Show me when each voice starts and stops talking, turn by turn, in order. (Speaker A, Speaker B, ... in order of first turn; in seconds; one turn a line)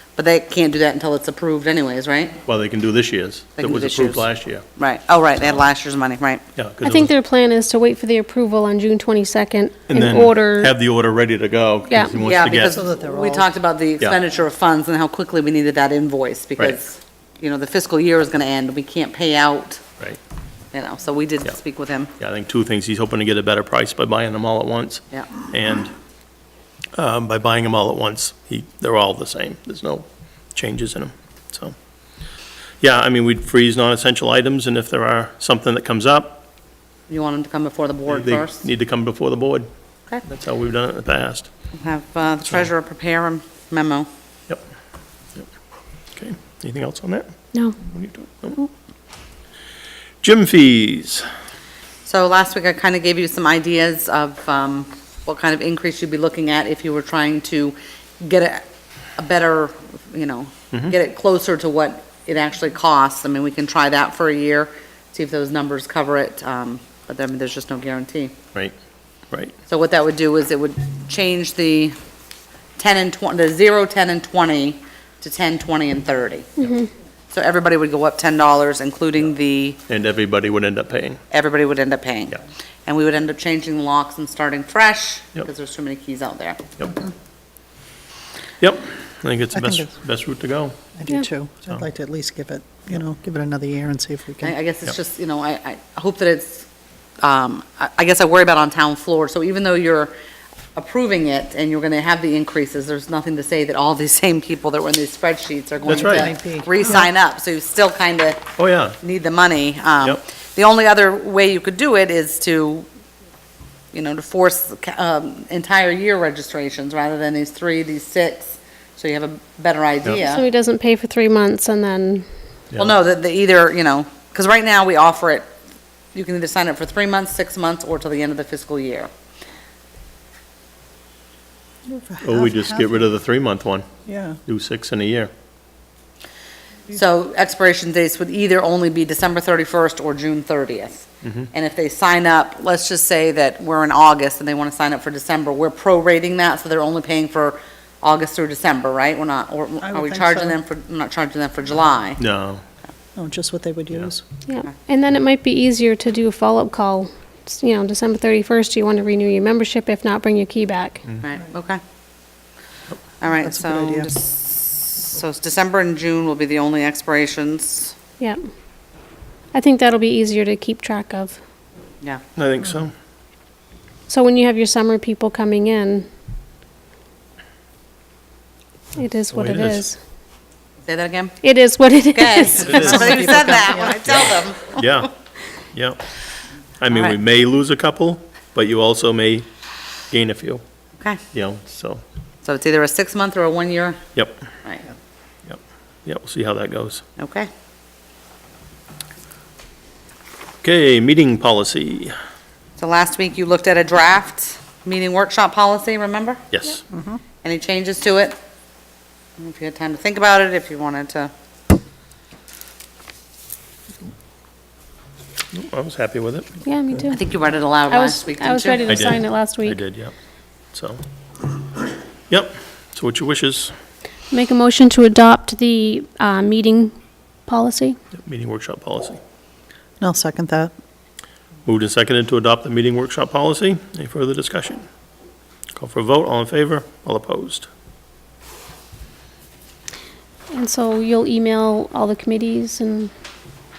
Speaker A: 0.2-2.4
Speaker B: 2.5-4.6
Speaker A: 3.6-6.4
Speaker B: 6.5-7.1
Speaker C: 6.8-10.7
Speaker B: 9.9-12.8
Speaker C: 11.9-12.2
Speaker A: 12.2-19.8
Speaker D: 12.7-13.5
Speaker A: 20.7-22.1
Speaker B: 22.2-25.9
Speaker B: 26.9-31.7
Speaker B: 32.8-36.4
Speaker A: 37.1-38.6
Speaker B: 38.1-39.7
Speaker B: 40.2-41.5
Speaker A: 41.8-44.1
Speaker B: 46.1-48.7
Speaker B: 50.2-51.2
Speaker A: 52.0-58.6
Speaker A: 59.2-68.3
Speaker A: 69.7-71.9
Speaker A: 72.8-76.5
Speaker C: 76.6-76.9
Speaker A: 77.3-79.8
Speaker B: 79.9-81.2
Speaker A: 81.3-86.6
Speaker B: 88.6-90.8
Speaker D: 89.5-89.9
Speaker D: 91.0-94.5
Speaker A: 94.4-96.7
Speaker A: 97.2-100.1
Speaker A: 100.8-108.5
Speaker B: 105.8-106.3
Speaker D: 105.9-107.1
Speaker B: 108.6-109.0
Speaker A: 109.0-112.8
Speaker A: 113.9-120.4
Speaker C: 120.2-122.2
Speaker A: 122.8-125.5
Speaker A: 126.1-129.1
Speaker D: 131.8-133.0
Speaker B: 132.2-133.9
Speaker D: 134.0-134.4
Speaker B: 134.4-135.3
Speaker A: 136.9-152.2
Speaker D: 149.8-150.6
Speaker B: 152.2-152.6
Speaker D: 153.1-154.2
Speaker C: 154.5-161.0
Speaker A: 161.2-161.8
Speaker A: 163.2-167.9
Speaker D: 163.3-164.1
Speaker C: 169.5-171.4
Speaker B: 172.3-172.9
Speaker C: 174.1-176.1
Speaker C: 178.9-179.9
Speaker B: 179.3-179.8
Speaker A: 180.8-181.4
Speaker C: 181.4-183.5
Speaker A: 182.1-184.9
Speaker B: 182.7-183.0
Speaker D: 182.7-184.0
Speaker B: 184.0-185.1
Speaker B: 185.7-186.0
Speaker B: 186.8-189.5
Speaker A: 186.9-187.1
Speaker B: 190.1-190.6
Speaker B: 191.3-192.0
Speaker A: 192.4-194.0
Speaker B: 194.1-194.4
Speaker B: 195.4-197.0
Speaker A: 197.2-197.5
Speaker B: 200.6-202.1
Speaker A: 202.8-206.4
Speaker B: 206.5-206.8
Speaker D: 206.9-207.2
Speaker A: 207.4-208.4
Speaker A: 209.4-211.3
Speaker B: 215.5-216.5
Speaker C: 216.6-219.8
Speaker A: 217.1-219.0
Speaker B: 218.9-220.1
Speaker B: 220.7-221.0
Speaker B: 222.3-223.7
Speaker C: 224.3-226.9
Speaker C: 227.5-228.0
Speaker B: 228.1-229.2
Speaker D: 230.0-230.7
Speaker B: 231.7-234.8
Speaker B: 235.7-237.7
Speaker C: 240.5-243.1